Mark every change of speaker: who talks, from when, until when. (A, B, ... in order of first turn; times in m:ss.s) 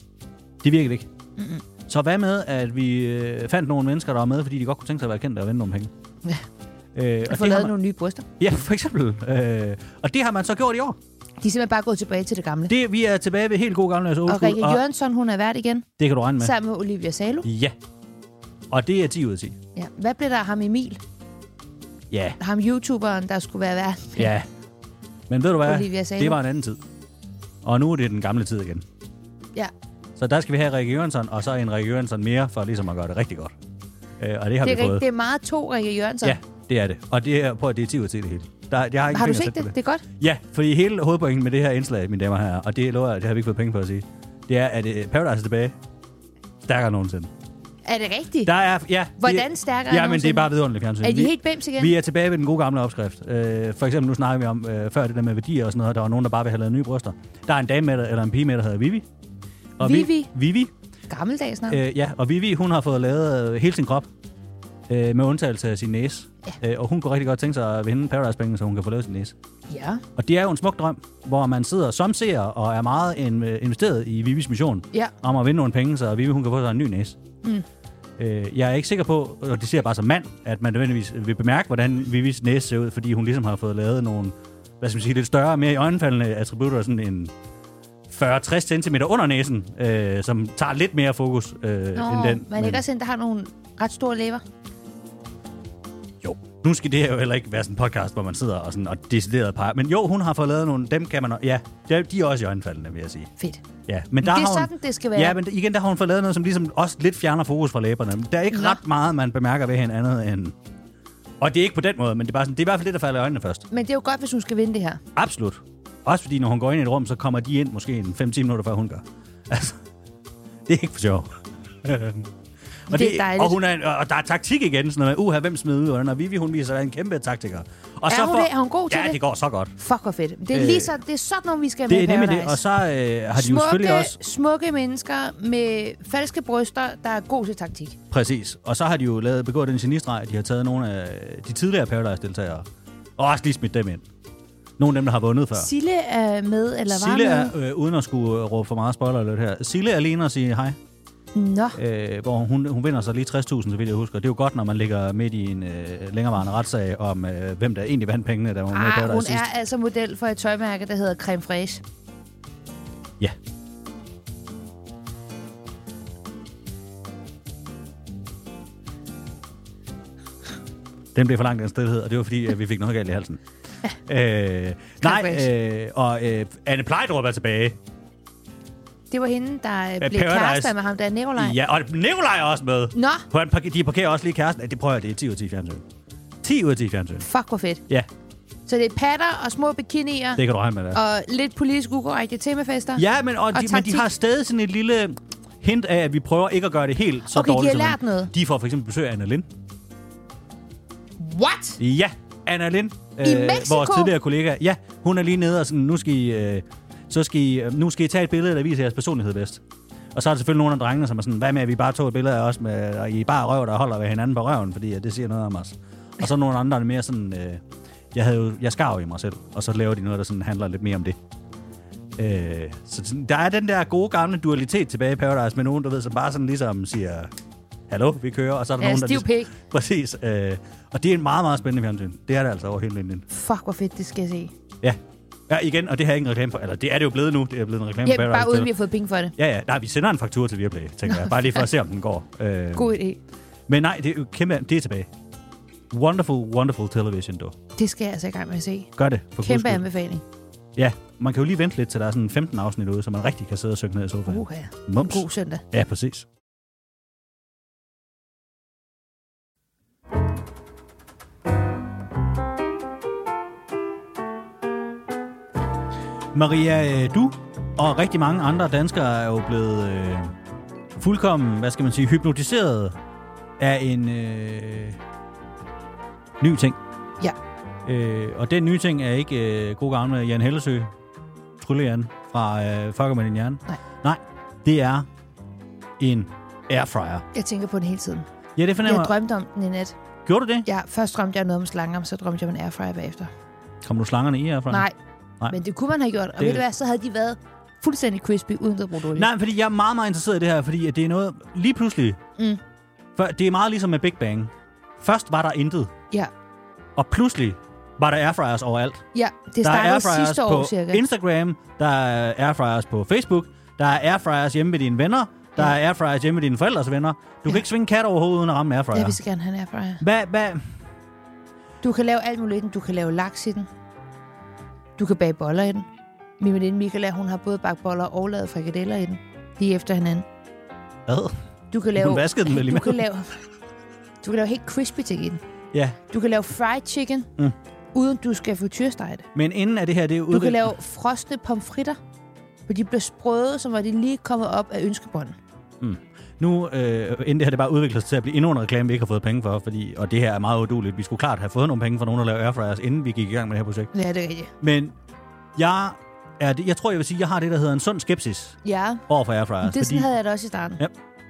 0:00.6-0:01.1 A
0:01.4-0:01.6 B
0:01.9-0:05.9 A
0:07.0-0:07.7 A
0:07.3-0:08.2 B
0:08.4-0:11.0 A
0:11.4-0:12.7 B
0:12.7-0:14.8 A
0:14.3-0:15.9 B
0:16.0-0:16.6 A
0:16.4-0:17.5 B
0:17.4-0:17.8 A
0:18.7-0:19.6 A
0:19.8-0:21.0 B
0:22.1-0:22.4 A
0:22.4-0:24.3 B
0:24.2-0:24.5 A
0:25.3-0:26.8 A
0:25.6-0:26.4 B
0:27.6-0:28.8 A
0:30.2-0:33.5 A
0:34.2-0:35.0 A
0:34.6-0:36.4 B
0:36.2-0:45.8 A
0:39.1-0:40.0 B
0:46.6-0:47.3 A
0:47.9-0:48.5 B
0:48.4-0:59.1 A
0:49.2-0:50.5 B
0:51.0-0:51.9 B
0:59.8-1:00.7 A
0:59.8-1:00.3 B
1:01.1-1:01.8 B
1:01.7-1:04.1 A
1:04.9-1:09.3 A
1:09.7-1:10.0 B
1:10.2-1:17.2 A
1:18.2-1:27.3 A
1:28.1-1:32.8 A
1:32.0-1:34.4 B
1:36.2-1:43.3 A
1:43.4-1:43.6 B
1:43.9-1:50.6 A
1:44.2-1:45.4 B
1:48.5-1:48.8 B
1:51.4-1:53.6 A
1:53.7-1:55.0 B
1:55.2-1:59.8 A
2:00.7-2:01.3 A
2:01.8-2:02.3 A
2:02.9-2:09.7 A
2:02.9-2:03.6 B
2:08.1-2:09.2 B
2:09.8-2:12.6 B
2:10.5-2:11.0 A
2:11.9-2:14.2 A
2:13.3-2:18.0 B
2:18.1-2:22.7 A
2:23.2-2:24.0 A
2:24.8-2:25.7 A
2:25.6-2:27.5 B
2:26.9-2:30.8 A
2:31.4-2:31.8 B
2:31.8-2:39.5 A
2:38.7-2:41.8 B
2:51.1-2:53.4 A
2:54.1-2:57.8 A
2:55.0-2:55.5 B
2:59.1-3:01.6 B
3:00.0-3:00.7 A
3:01.4-3:05.8 A
3:02.9-3:03.3 B
3:06.4-3:07.3 A
3:07.2-3:07.8 B
3:08.7-3:14.1 B
3:10.4-3:11.0 A
3:13.0-3:19.5 A
3:17.3-3:18.3 B
3:21.2-3:21.8 B
3:21.8-3:29.6 A
3:23.2-3:24.2 B
3:30.1-3:37.6 A
3:38.1-3:41.2 A
3:42.2-3:47.3 A
3:47.9-3:53.3 A
3:48.8-3:49.5 B
3:53.3-3:54.5 B
3:55.5-3:58.7 A
3:58.1-3:59.4 B
3:59.4-4:02.9 A
4:01.1-4:01.4 B
4:02.8-4:03.2 B
4:03.7-4:05.1 A
4:05.9-4:07.6 A
4:07.8-4:10.2 B
4:09.0-4:09.8 A
4:10.8-4:16.3 A
4:14.3-4:15.6 B
4:26.3-4:30.3 A
4:31.0-4:33.0 A
4:33.6-4:35.0 A
4:36.4-4:36.8 A
4:37.8-4:40.9 A
4:41.6-4:45.1 A
4:46.0-4:47.2 A
4:47.3-4:48.3 B
4:48.6-4:49.2 A
4:48.8-4:50.0 B
4:50.3-4:50.7 A
4:50.6-4:53.3 B
4:53.8-4:54.9 A
4:54.7-4:55.0 B
4:55.5-4:59.3 B
4:56.4-4:56.6 A
4:59.1-5:02.2 A
5:03.2-5:05.9 A
5:07.0-5:09.0 A
5:09.1-5:11.0 B
5:09.6-5:19.2 A
5:18.9-5:20.0 B
5:20.0-5:20.7 A
5:21.8-5:23.7 B
5:25.0-5:25.9 B
5:26.4-5:30.3 B
5:31.1-5:31.3 A
5:31.7-5:33.4 B
5:31.9-5:33.0 A
5:34.2-5:35.4 B
5:36.1-5:37.3 B
5:37.9-5:39.3 B
5:39.4-5:40.7 A
5:40.3-5:42.0 B
5:42.7-5:45.4 B
5:45.8-5:53.9 A
5:53.9-5:54.5 B
5:54.6-5:55.0 A
5:55.6-5:58.6 A
5:58.6-5:59.0 B
5:59.1-6:00.1 A
5:59.6-6:00.8 B